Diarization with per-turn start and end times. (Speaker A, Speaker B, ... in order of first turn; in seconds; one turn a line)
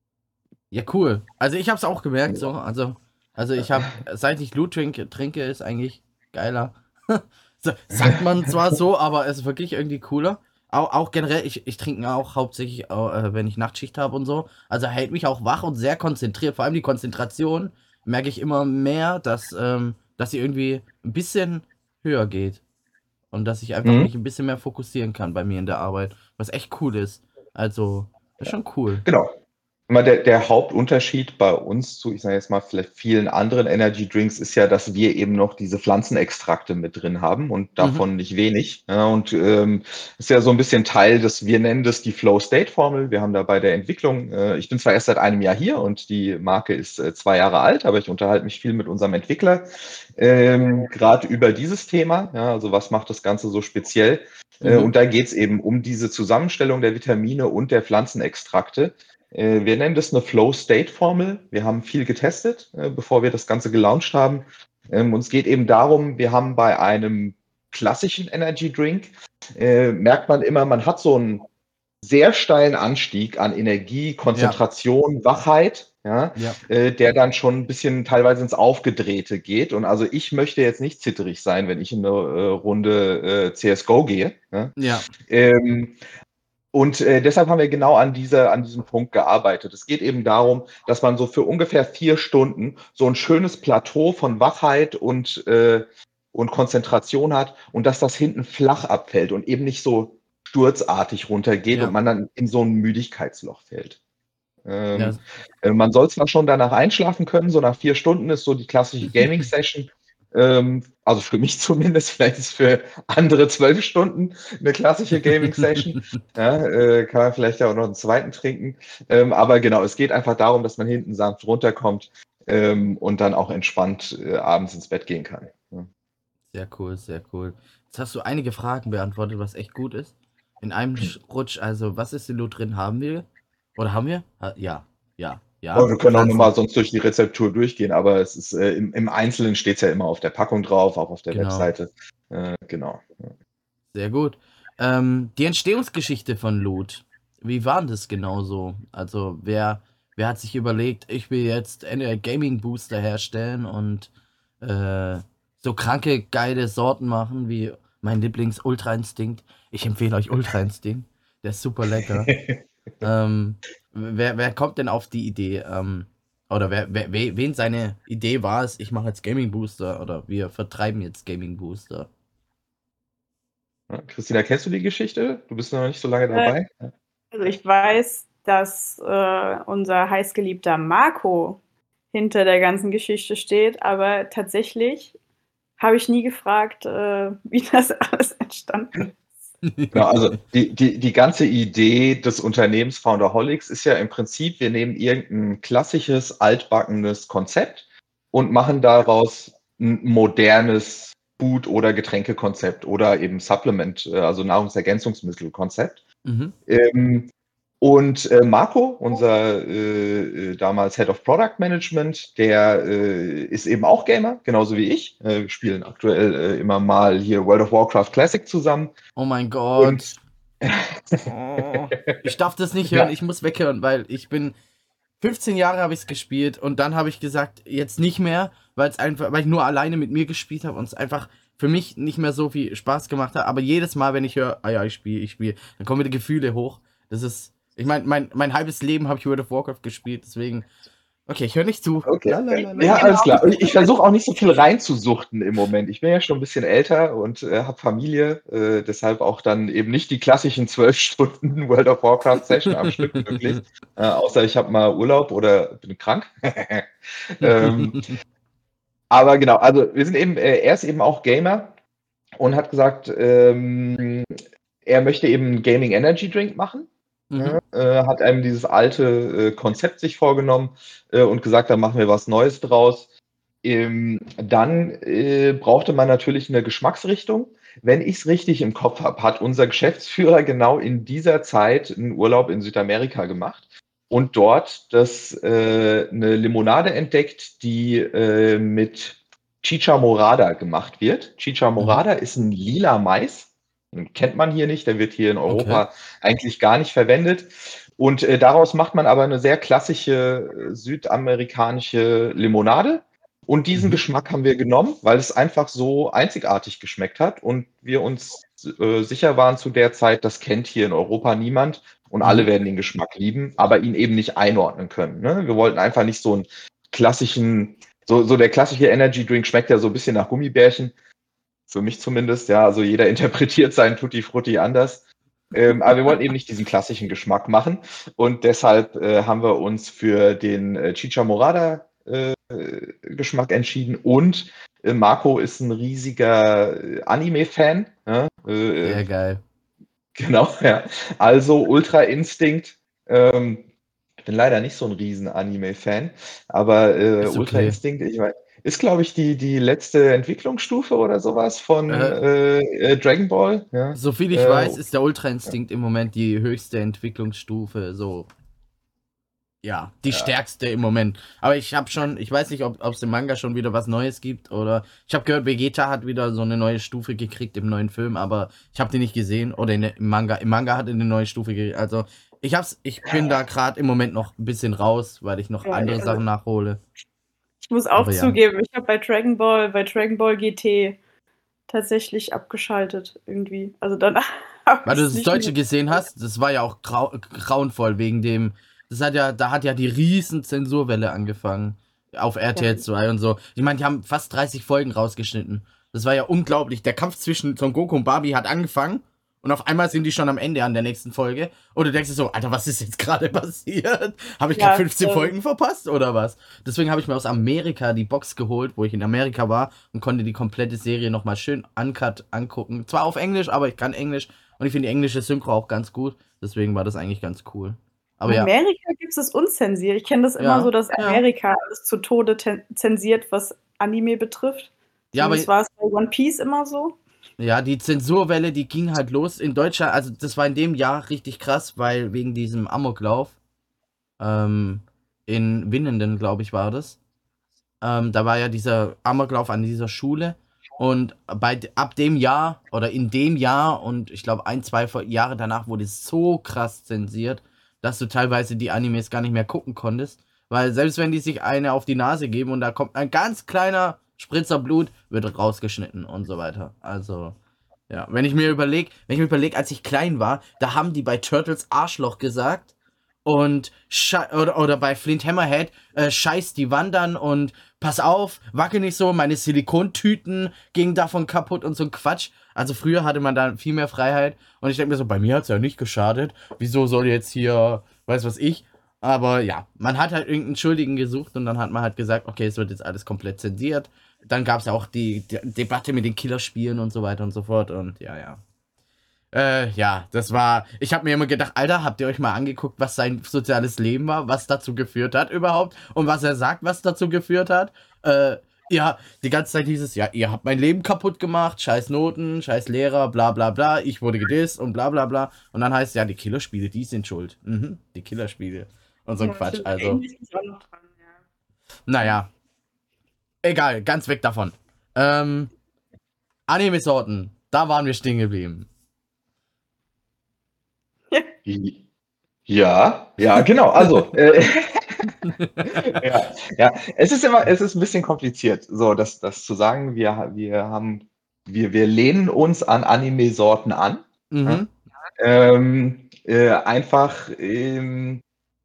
Speaker A: 0.7-22.6
Speaker B: 7.9-8.2
Speaker A: 23.3-29.0
Speaker B: 23.8-24.1
Speaker B: 29.0-29.3
Speaker B: 29.9-71.5
Speaker A: 37.8-38.0
Speaker A: 54.6-54.9
Speaker B: 72.0-84.7
Speaker A: 84.8-85.1
Speaker B: 85.2-86.0
Speaker B: 86.7-104.0
Speaker B: 104.6-125.9
Speaker A: 104.9-105.2
Speaker A: 115.5-116.0
Speaker A: 126.5-136.5
Speaker B: 135.7-143.3
Speaker A: 141.3-141.7
Speaker A: 143.9-154.1
Speaker A: 154.6-162.3
Speaker B: 161.9-162.6
Speaker A: 163.0-172.1
Speaker B: 173.9-176.8
Speaker C: 177.3-181.6
Speaker C: 182.1-185.1
Speaker C: 185.8-189.1
Speaker A: 189.6-190.4
Speaker B: 189.9-206.0
Speaker A: 206.2-206.5
Speaker B: 206.7-218.9
Speaker A: 219.2-220.2
Speaker B: 219.8-220.1
Speaker B: 220.6-222.3
Speaker A: 221.2-224.6
Speaker B: 222.8-223.1
Speaker A: 225.2-240.7
Speaker A: 241.3-243.4
Speaker B: 242.1-258.0
Speaker C: 242.8-243.9
Speaker A: 252.7-253.6
Speaker A: 257.4-258.2
Speaker B: 259.1-261.7
Speaker B: 262.4-273.1
Speaker A: 267.3-267.6
Speaker B: 273.6-320.9
Speaker A: 295.5-295.8
Speaker A: 312.2-312.5
Speaker B: 321.7-325.0
Speaker B: 325.5-339.0
Speaker A: 338.8-339.4
Speaker B: 340.2-343.6
Speaker B: 344.2-354.8
Speaker A: 347.2-347.8
Speaker A: 351.9-352.2
Speaker A: 353.9-358.3
Speaker A: 359.6-376.8
Speaker C: 375.6-376.2
Speaker C: 377.6-381.0
Speaker A: 377.9-378.4
Speaker C: 381.7-386.0
Speaker A: 384.9-418.5
Speaker C: 392.5-392.8
Speaker C: 404.5-405.3
Speaker C: 418.2-427.0
Speaker A: 420.4-421.2
Speaker A: 425.1-425.5
Speaker A: 427.4-433.4
Speaker A: 434.2-437.0
Speaker A: 437.8-457.4
Speaker A: 457.9-462.7
Speaker A: 463.2-488.4
Speaker A: 489.3-510.0
Speaker C: 509.2-511.1
Speaker A: 511.9-512.3
Speaker A: 513.4-515.5
Speaker A: 516.5-518.7
Speaker B: 521.5-521.8
Speaker B: 522.5-525.1
Speaker A: 525.2-526.0
Speaker B: 525.6-534.6
Speaker A: 534.3-534.7
Speaker B: 535.2-538.2